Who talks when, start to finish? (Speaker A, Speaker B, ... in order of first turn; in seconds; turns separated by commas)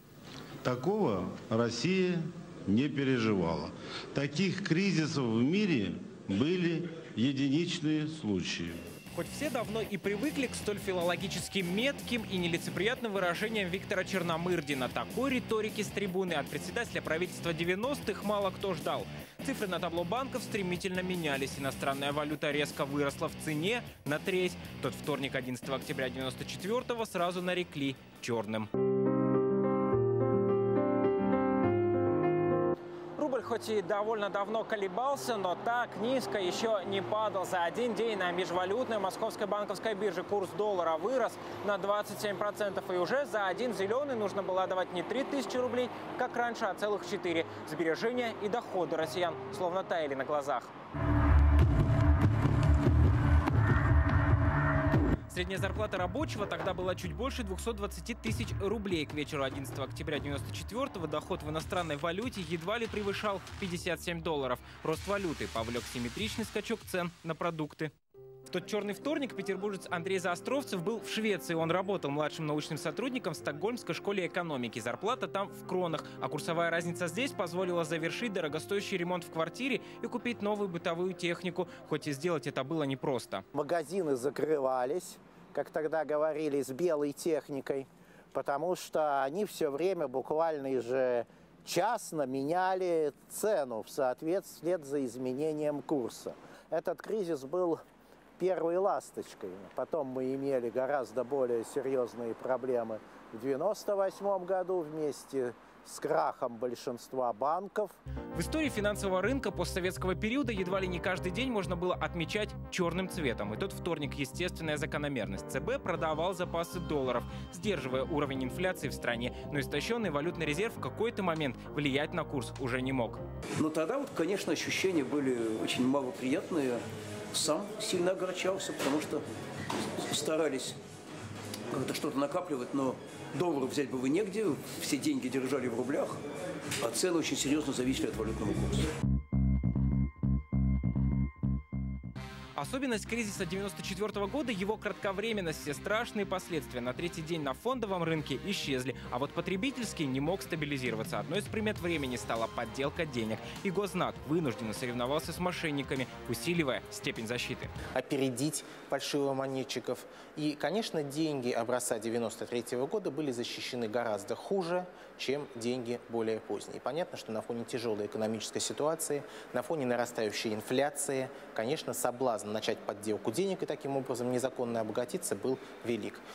Speaker A: 0.6-8.8, Speaker B: 9.1-28.7, Speaker B: 33.2-50.7, Speaker B: 55.3-67.9, Speaker B: 68.5-83.4, Speaker C: 83.5-97.8, Speaker C: 98.4-108.0, Speaker B: 108.3-123.2, Speaker D: 123.6-126.8, Speaker D: 127.3-129.2, Speaker D: 130.1-130.8, Speaker D: 131.7-136.2, Speaker D: 136.8-138.8, Speaker B: 142.6-157.7, Speaker E: 157.9-176.2